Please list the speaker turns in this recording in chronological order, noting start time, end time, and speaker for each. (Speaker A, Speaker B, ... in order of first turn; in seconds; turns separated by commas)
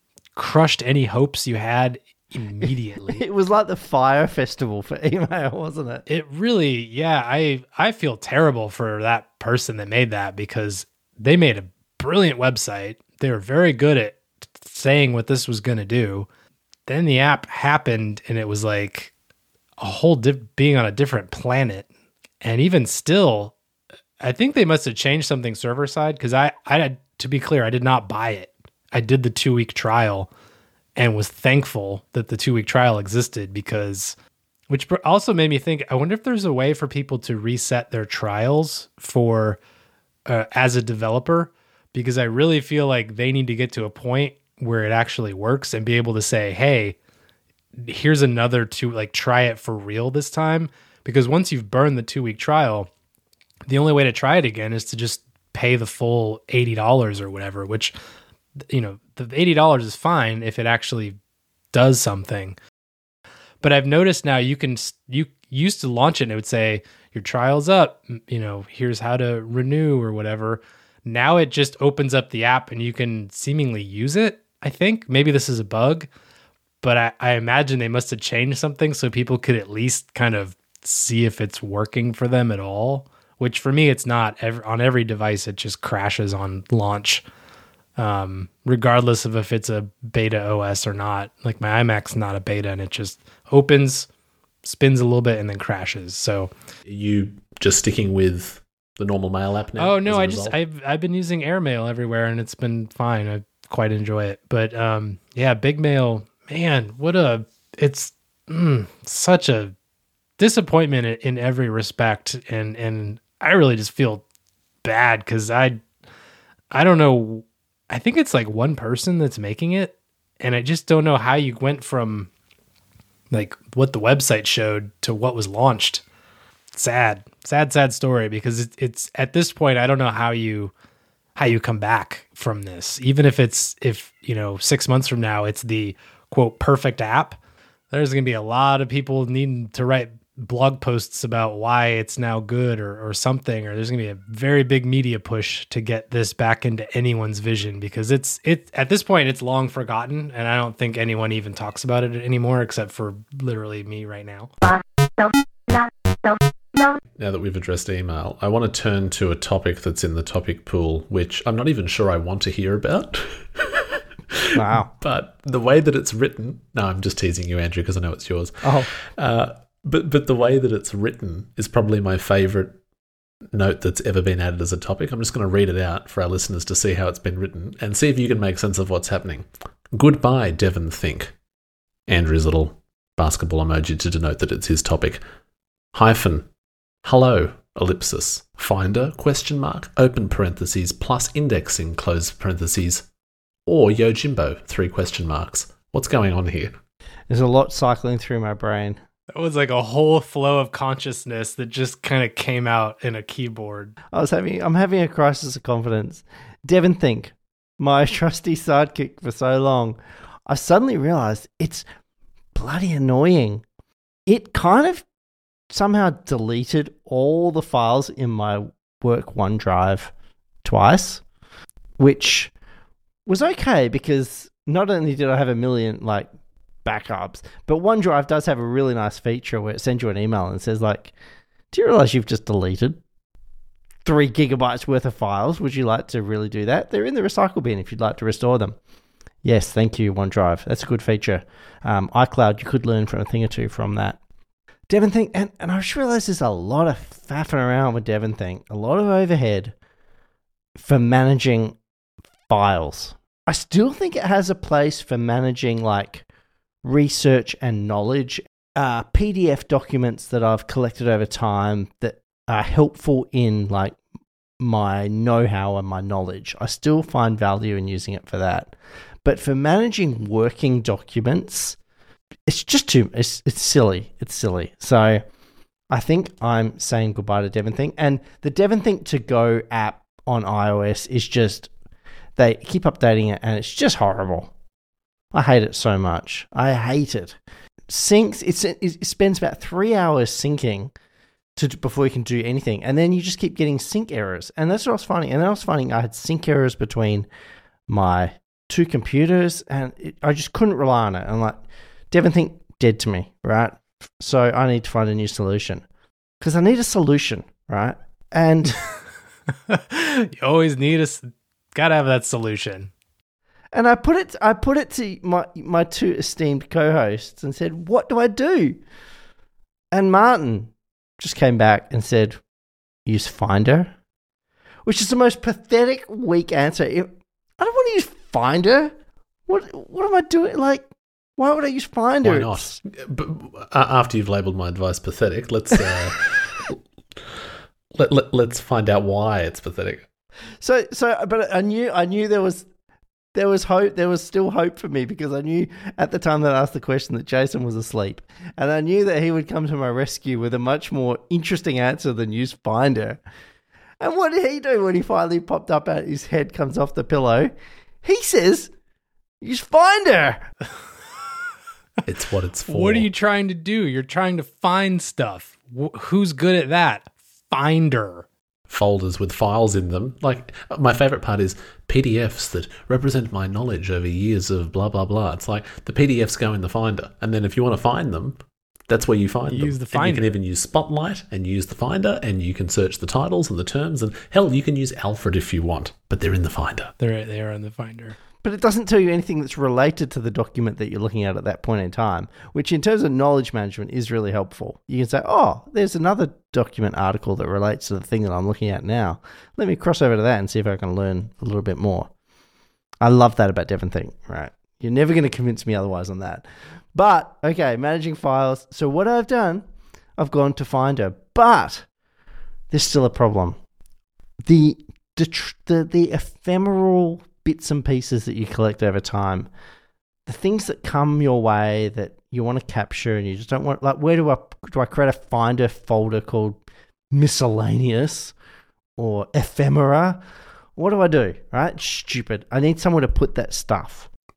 Speaker A: 0.3-3.2, Speaker B: 3.1-6.0, Speaker A: 6.1-16.3, Speaker A: 16.9-19.1, Speaker A: 19.8-21.9, Speaker A: 22.4-23.5, Speaker A: 24.2-30.3, Speaker A: 30.9-34.1, Speaker A: 34.7-39.6, Speaker A: 40.3-47.0, Speaker A: 47.8-52.9, Speaker A: 53.7-57.9, Speaker A: 58.7-61.1, Speaker A: 61.7-62.6, Speaker A: 63.6-76.1, Speaker A: 76.8-87.2, Speaker A: 88.0-94.1, Speaker A: 94.6-96.5, Speaker C: 96.8-100.5, Speaker A: 99.8-109.7, Speaker A: 110.4-114.2, Speaker A: 114.8-115.8, Speaker A: 116.7-122.3, Speaker A: 123.3-126.0, Speaker A: 126.7-130.7, Speaker A: 131.3-137.4, Speaker A: 137.9-154.5, Speaker C: 157.2-172.8, Speaker B: 164.5-164.9, Speaker B: 168.6-168.9, Speaker C: 173.5-181.3, Speaker C: 182.1-185.2, Speaker C: 185.9-186.5, Speaker C: 187.0-193.1, Speaker C: 193.7-196.8, Speaker B: 197.3-199.0, Speaker A: 199.3-203.9, Speaker B: 204.1-211.8, Speaker B: 212.5-213.6, Speaker B: 214.3-215.1, Speaker B: 215.7-220.1, Speaker B: 220.6-221.2, Speaker B: 222.0-222.5, Speaker B: 223.2-226.3, Speaker B: 226.8-231.1, Speaker B: 231.7-233.0, Speaker B: 234.0-238.8, Speaker B: 239.4-244.2, Speaker B: 244.9-249.7, Speaker B: 250.7-251.8, Speaker B: 252.5-256.2, Speaker B: 256.8-264.0, Speaker B: 264.6-271.8, Speaker B: 272.5-275.2, Speaker B: 275.9-281.7, Speaker B: 282.4-284.5, Speaker B: 285.3-290.9, Speaker B: 291.6-297.3, Speaker B: 297.9-305.8, Speaker B: 306.4-308.8, Speaker A: 309.7-312.9, Speaker B: 313.7-318.8, Speaker B: 319.9-322.4, Speaker B: 323.1-323.9, Speaker B: 324.8-328.9, Speaker B: 329.5-332.8, Speaker C: 332.2-336.8, Speaker C: 337.9-340.1, Speaker B: 340.6-342.7, Speaker B: 343.3-353.2, Speaker B: 354.0-357.5, Speaker B: 358.0-358.7, Speaker B: 359.4-360.4, Speaker C: 362.0-363.1, Speaker A: 362.7-368.2, Speaker C: 368.7-386.9, Speaker A: 379.5-380.3, Speaker A: 387.0-388.2, Speaker B: 388.4-402.1, Speaker B: 403.0-409.6, Speaker B: 410.2-411.9, Speaker B: 412.7-413.6, Speaker B: 414.4-419.5, Speaker B: 420.2-428.3, Speaker B: 429.0-430.2, Speaker B: 430.8-434.1